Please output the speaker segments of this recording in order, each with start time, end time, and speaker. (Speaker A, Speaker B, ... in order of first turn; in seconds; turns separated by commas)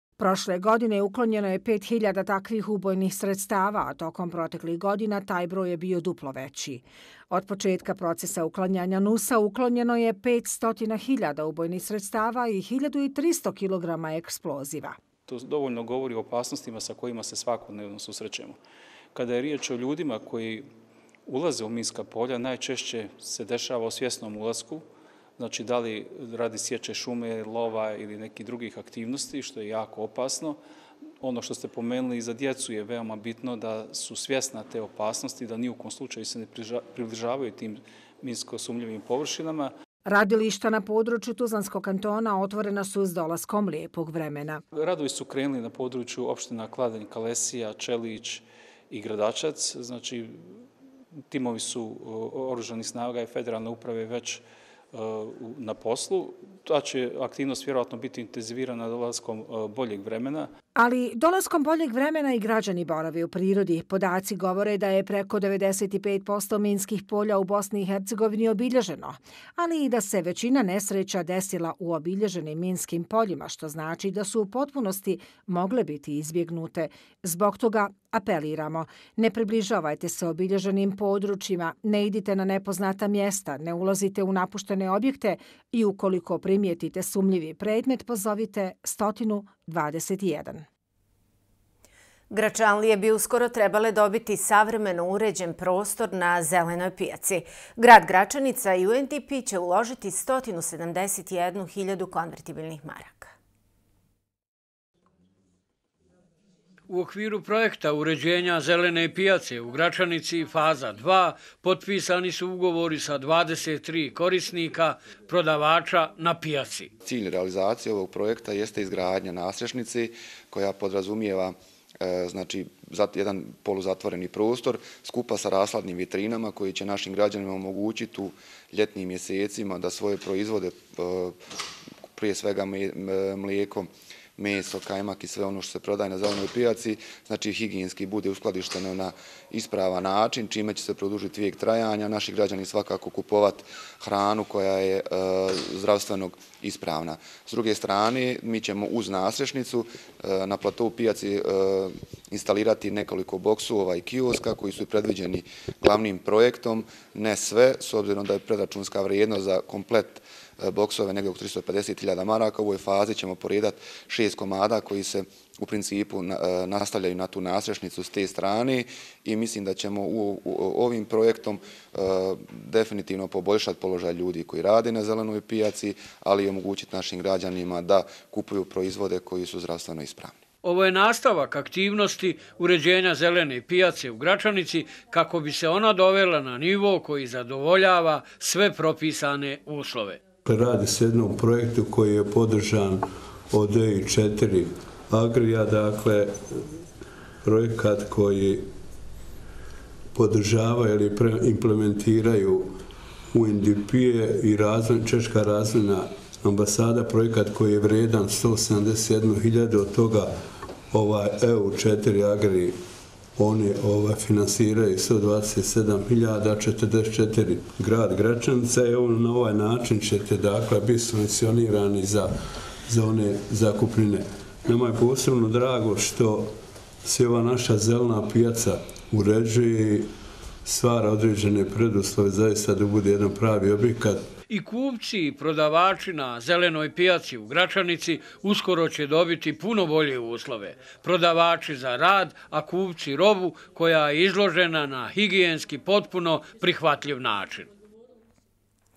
Speaker A: 0.2-14.9, Speaker B: 15.3-18.6, Speaker B: 19.1-20.7, Speaker B: 21.3-24.8, Speaker B: 25.4-30.6, Speaker B: 31.2-39.7, Speaker A: 40.0-44.6, Speaker B: 44.7-50.4, Speaker B: 51.3-60.5, Speaker A: 60.8-90.6, Speaker C: 92.3-103.3, Speaker D: 106.9-116.9, Speaker E: 117.0-131.3, Speaker E: 132.2-180.4, Speaker D: 180.6-190.2, Speaker F: 190.4-196.6, Speaker F: 197.4-198.7, Speaker F: 200.1-202.7, Speaker F: 203.3-210.3, Speaker F: 210.9-212.8, Speaker F: 213.3-222.3, Speaker F: 222.8-226.5, Speaker F: 227.0-230.1, Speaker F: 230.6-234.2, Speaker D: 234.5-247.7